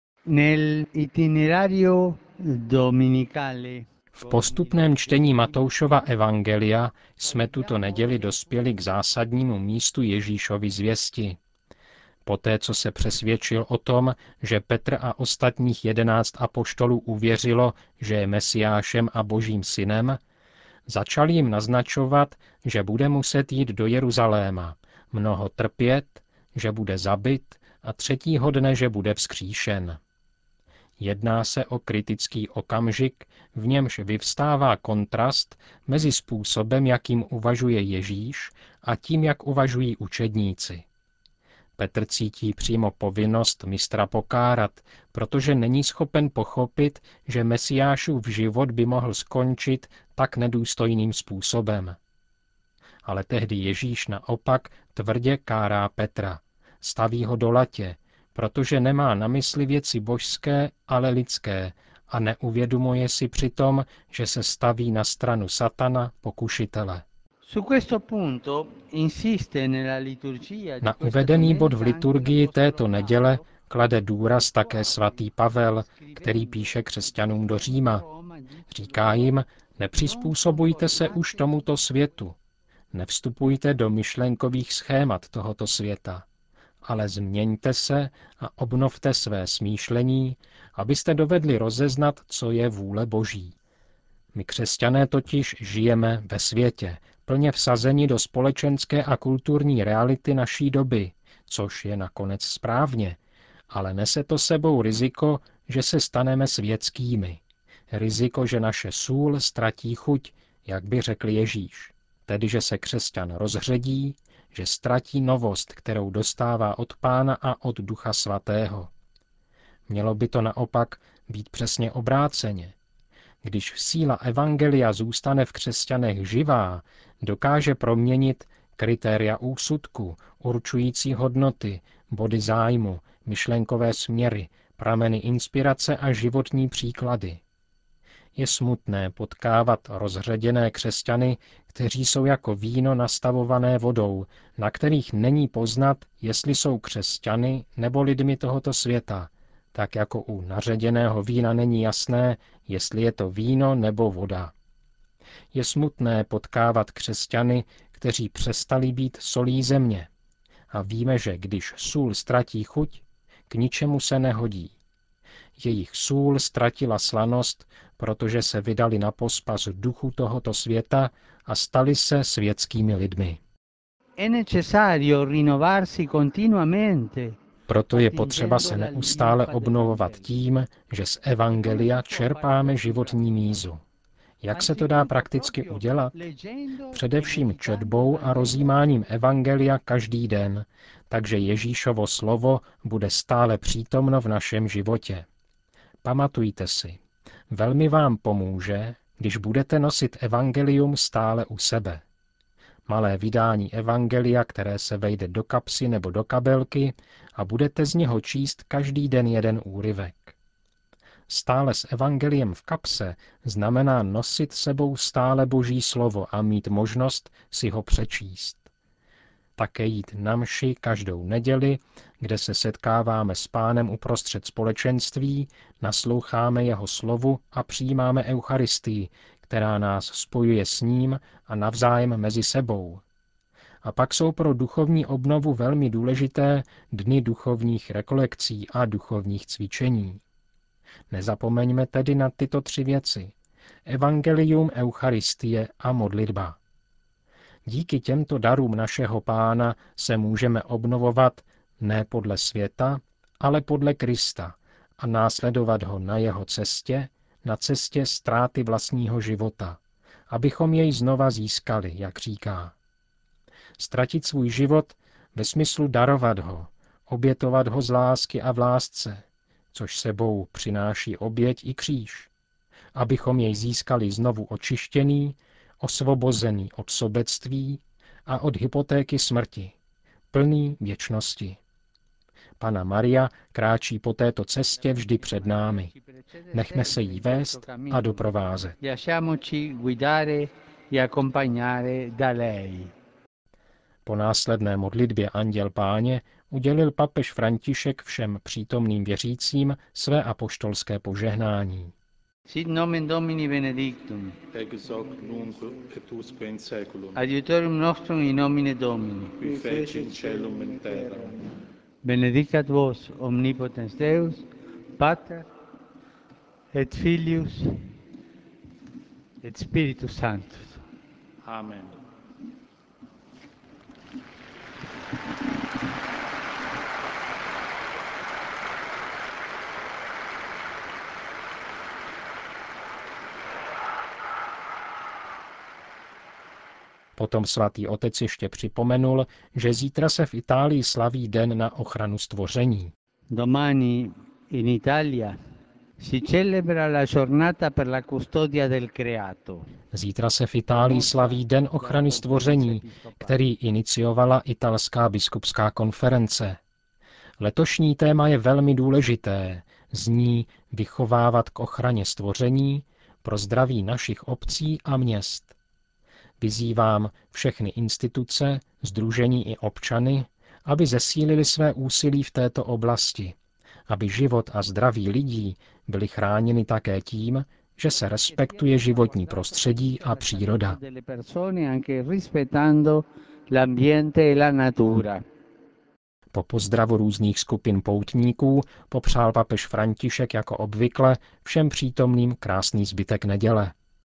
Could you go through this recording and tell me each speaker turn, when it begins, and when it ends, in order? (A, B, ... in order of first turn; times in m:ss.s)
0:00.3-0:06.0 A
0:04.1-0:11.4 B
0:07.3-0:08.5 A
0:12.2-0:20.2 B
0:20.9-0:30.0 B
0:31.0-0:40.8 B
0:41.8-0:52.0 B
0:53.0-1:07.0 B
1:07.4-1:13.5 A
1:10.8-1:18.0 B
1:14.5-1:15.3 A
1:15.8-1:19.3 A
1:18.7-1:22.4 B
1:19.9-1:21.7 A
1:22.9-1:26.2 B
1:26.8-1:33.5 B
1:34.3-1:43.2 B
1:43.7-1:58.9 B
1:59.9-2:02.7 B
2:03.4-2:17.4 B
2:18.4-2:34.5 B
2:35.5-2:40.1 B
2:40.7-2:44.8 B
2:45.6-2:53.4 B
2:54.2-2:57.3 A
2:57.7-3:03.8 B
2:57.9-3:00.3 A
3:01.4-3:03.6 A
3:04.4-3:06.1 B
3:04.5-3:08.7 A
3:06.9-3:15.3 B
3:16.0-3:22.0 B
3:22.9-3:30.4 B
3:31.3-3:38.7 B
3:39.6-3:53.0 B
3:53.8-4:00.2 B
4:01.1-4:03.3 B
4:03.8-4:06.6 B
4:07.6-4:22.8 B
4:23.8-4:32.3 B
4:32.9-4:39.7 B
4:40.3-4:41.6 B
4:42.6-4:45.9 B
4:44.8-4:48.3 A
4:46.5-4:48.8 B
4:48.8-4:52.9 A
4:54.0-5:01.9 B
5:02.5-5:04.4 A
5:04.5-5:07.2 C
5:07.1-5:09.5 A
5:09.4-5:11.4 C
5:12.0-5:15.5 A
5:16.7-5:18.0 A
5:19.4-5:20.8 A
5:21.4-5:22.0 C
5:37.2-5:42.9 B
5:43.3-5:45.4 A
5:46.0-5:49.7 A
5:49.9-5:56.6 B
5:50.7-5:53.4 A
5:57.4-6:05.5 B
6:06.4-6:13.4 B
6:13.9-6:20.8 B
6:18.0-6:25.2 A
6:26.3-6:33.7 B